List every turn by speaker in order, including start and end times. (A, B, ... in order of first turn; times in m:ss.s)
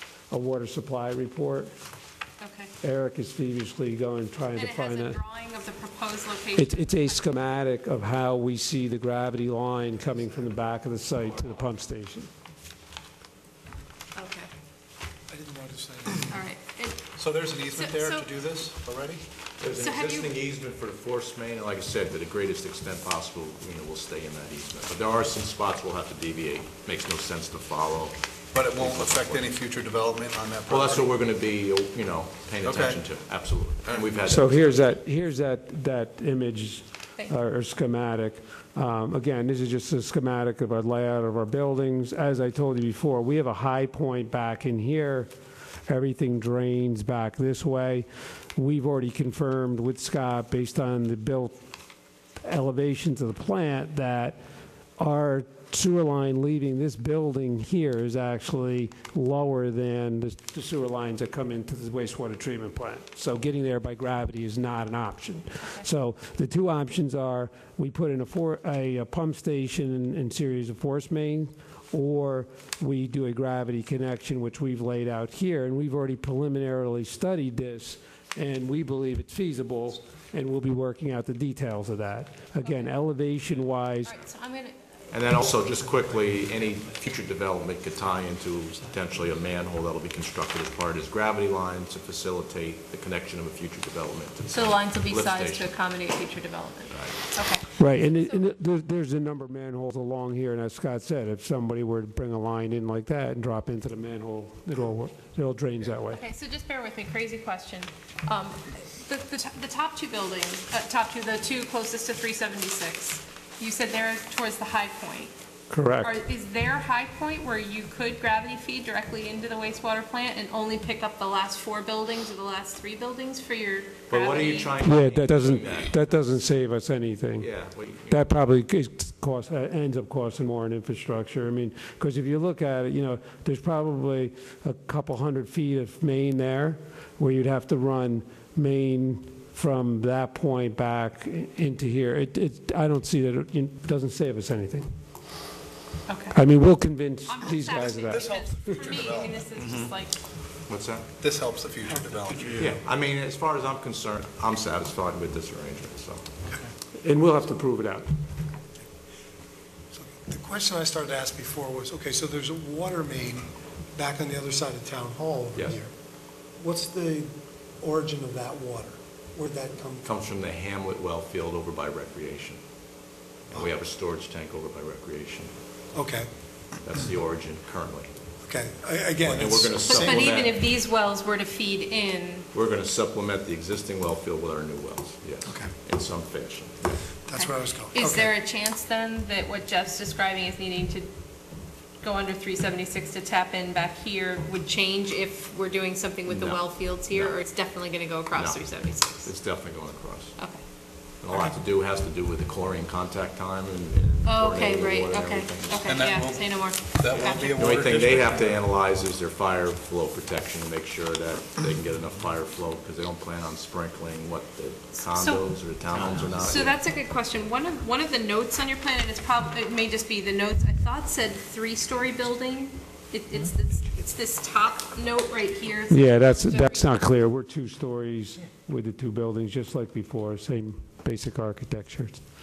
0:00.3-0:01.7 A
0:02.4-0:02.7 B
0:02.8-0:05.2 A
0:04.5-0:07.3 B
0:06.5-0:12.3 A
0:14.2-0:14.5 B
0:15.3-0:16.3 C
0:16.3-0:18.3 B
0:17.2-0:19.2 D
0:19.6-0:29.5 E
0:19.8-0:20.3 B
0:28.5-0:31.1 D
0:30.7-0:34.9 E
0:32.6-0:33.1 D
0:34.2-0:45.3 A
0:45.9-0:51.6 A
0:52.4-0:54.4 A
0:55.0-1:24.2 A
1:24.0-1:24.8 B
1:25.1-1:35.7 E
1:34.5-1:38.5 B
1:36.9-1:37.3 E
1:37.8-1:46.2 A
1:46.1-1:55.3 B
1:55.7-1:56.1 A
1:56.0-2:04.8 B
2:04.1-2:05.9 E
2:04.8-2:07.5 A
2:07.4-2:08.3 E
2:08.1-2:24.9 A
2:26.1-2:26.4 B
2:26.3-2:28.3 A
2:27.3-2:30.2 B
2:27.9-2:29.9 D
2:30.7-2:31.1 E
2:31.2-2:32.7 D
2:32.6-2:36.2 E
2:36.9-2:38.1 A
2:39.9-2:45.9 C
2:46.6-2:50.1 C
2:50.0-2:52.6 E
2:53.5-2:55.5 E
2:55.9-2:56.3 C
2:56.8-2:58.1 E
2:58.4-3:00.3 C
2:59.2-3:00.6 E
2:59.8-3:02.5 B
3:02.5-3:07.0 E
3:07.2-3:08.3 C
3:07.3-3:11.1 B
3:12.0-3:19.3 B
3:16.3-3:17.4 E
3:18.3-3:20.4 E
3:20.4-3:20.6 B
3:21.2-3:26.1 E
3:24.2-3:27.5 B
3:25.8-3:28.6 D
3:27.4-3:36.8 E
3:35.0-3:46.9 B
3:45.9-3:52.2 A